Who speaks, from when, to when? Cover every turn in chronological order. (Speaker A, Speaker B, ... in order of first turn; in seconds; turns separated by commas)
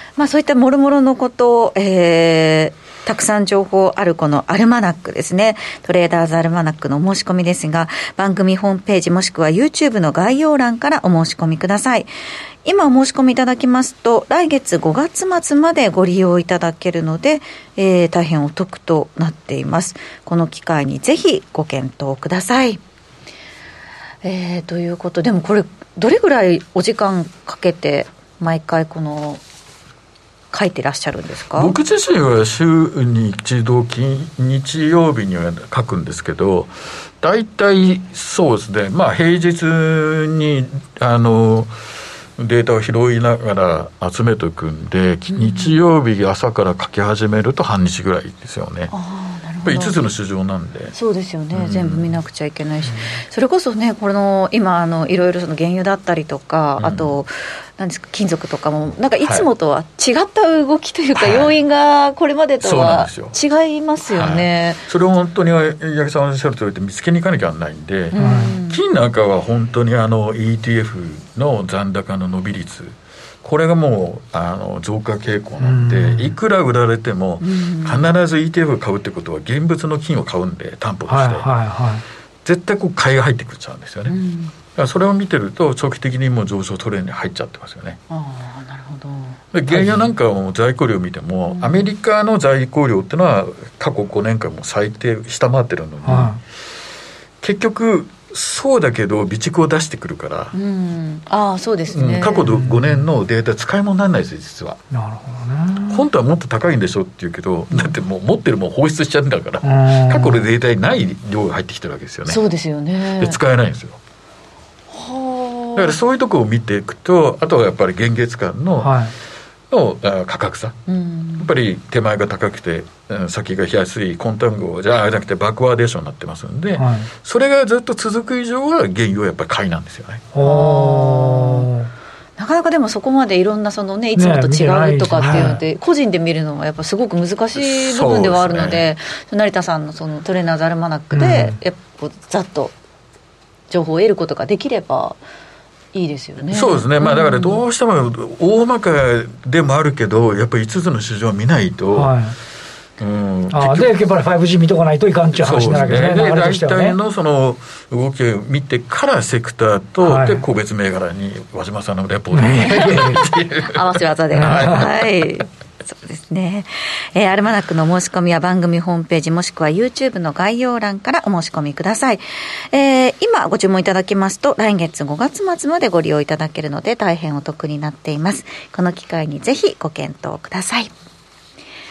Speaker A: 0.2-12.1, Speaker A: 12.6-22.8, Speaker A: 24.2-29.4, Speaker A: 30.5-31.7, Speaker B: 31.5-41.7, Speaker B: 42.4-48.9, Speaker A: 45.3-45.8, Speaker A: 48.9-50.0, Speaker B: 49.6-50.9, Speaker A: 50.9-64.8, Speaker B: 51.5-52.1, Speaker B: 56.8-57.2, Speaker B: 59.2-59.5, Speaker B: 61.1-61.5, Speaker B: 62.6-63.3, Speaker B: 64.1-81.5, Speaker A: 68.1-68.8, Speaker C: 68.2-68.6, Speaker C: 75.6-76.3, Speaker A: 77.4-78.1, Speaker C: 81.1-82.0, Speaker B: 82.4-84.2, Speaker A: 84.1-84.5, Speaker B: 84.7-88.0, Speaker A: 88.1-89.4, Speaker B: 89.5-96.4, Speaker C: 89.7-90.0, Speaker A: 91.5-91.9, Speaker C: 96.0-96.4, Speaker B: 97.4-100.5, Speaker A: 100.5-102.5, Speaker B: 101.9-104.8, Speaker C: 102.5-102.9, Speaker C: 104.9-106.0, Speaker B: 105.9-112.4, Speaker C: 109.6-110.5, Speaker A: 112.2-113.4, Speaker B: 113.2-114.0, Speaker A: 114.9-116.0, Speaker B: 115.7-119.0, Speaker C: 118.8-119.1, Speaker B: 119.7-120.8, Speaker A: 120.9-121.5, Speaker B: 121.4-130.2, Speaker C: 126.8-127.1, Speaker C: 130.3-131.9, Speaker A: 130.4-131.7, Speaker A: 132.4-142.7, Speaker C: 134.2-135.6, Speaker B: 137.6-138.8, Speaker C: 141.1-141.6, Speaker A: 143.7-145.2, Speaker A: 145.9-147.6, Speaker B: 146.5-152.1, Speaker C: 151.9-152.3, Speaker B: 153.0-153.9, Speaker C: 153.5-157.0, Speaker B: 155.3-165.4, Speaker C: 160.0-160.4, Speaker C: 162.3-163.2, Speaker A: 162.6-180.9, Speaker C: 164.3-164.8